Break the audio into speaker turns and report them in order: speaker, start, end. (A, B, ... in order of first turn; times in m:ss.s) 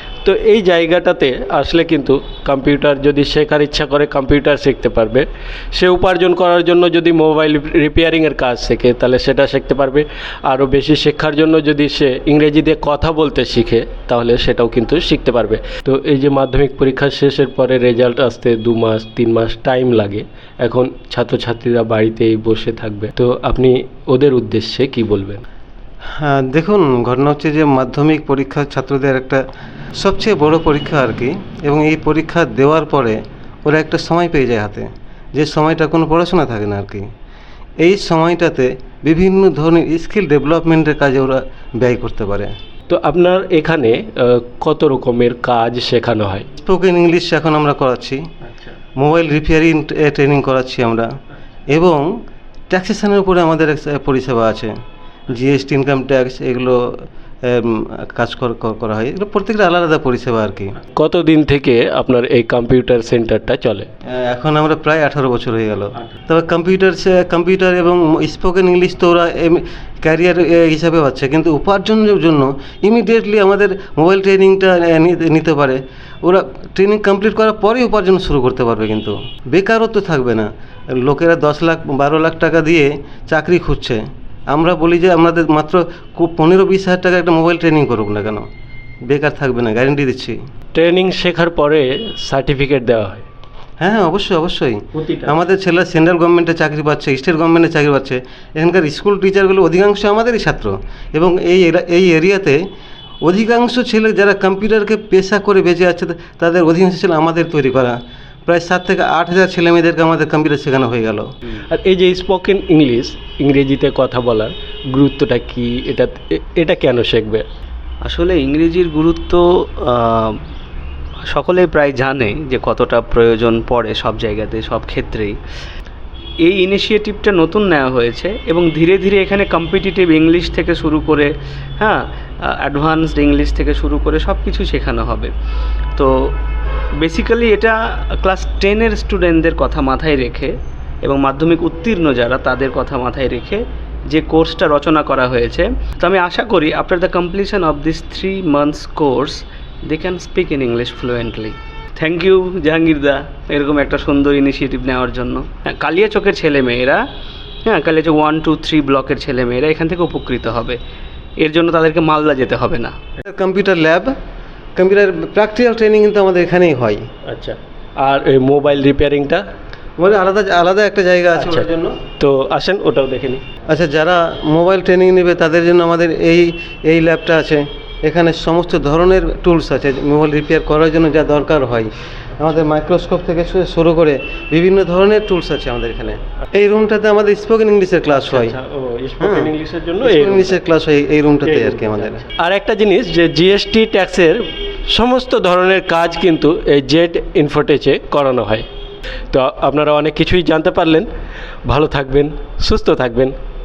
0:00.2-0:25.4 A
0:26.2-0:29.4 B
0:30.0-0:37.1 B
0:37.8-0:42.5 B
0:42.9-0:46.5 A
0:46.6-0:48.2 B
0:49.0-0:51.1 B
0:51.7-0:52.1 B
0:52.7-0:54.7 B
0:55.3-1:00.7 B
1:01.0-1:03.9 A
1:04.1-1:28.4 B
1:29.1-1:30.4 B
1:30.7-1:33.2 A
1:33.8-1:42.6 B
1:34.9-1:35.3 A
1:43.2-1:51.3 B
1:51.7-1:57.4 A
1:58.0-2:00.4 C
2:01.2-2:05.4 C
2:06.4-2:15.3 C
2:16.0-2:16.4 C
2:17.0-2:37.0 C
2:37.6-2:40.8 C
2:41.4-2:43.0 C
2:43.2-2:44.1 B
2:44.8-2:47.1 B
2:47.2-2:49.4 A
2:50.0-2:52.0 B
2:51.4-2:53.4 A
2:53.7-3:08.6 B
3:08.1-3:10.6 A
3:09.2-3:12.2 B
3:11.4-3:18.7 A
3:19.3-3:21.1 A
3:21.7-3:23.3 A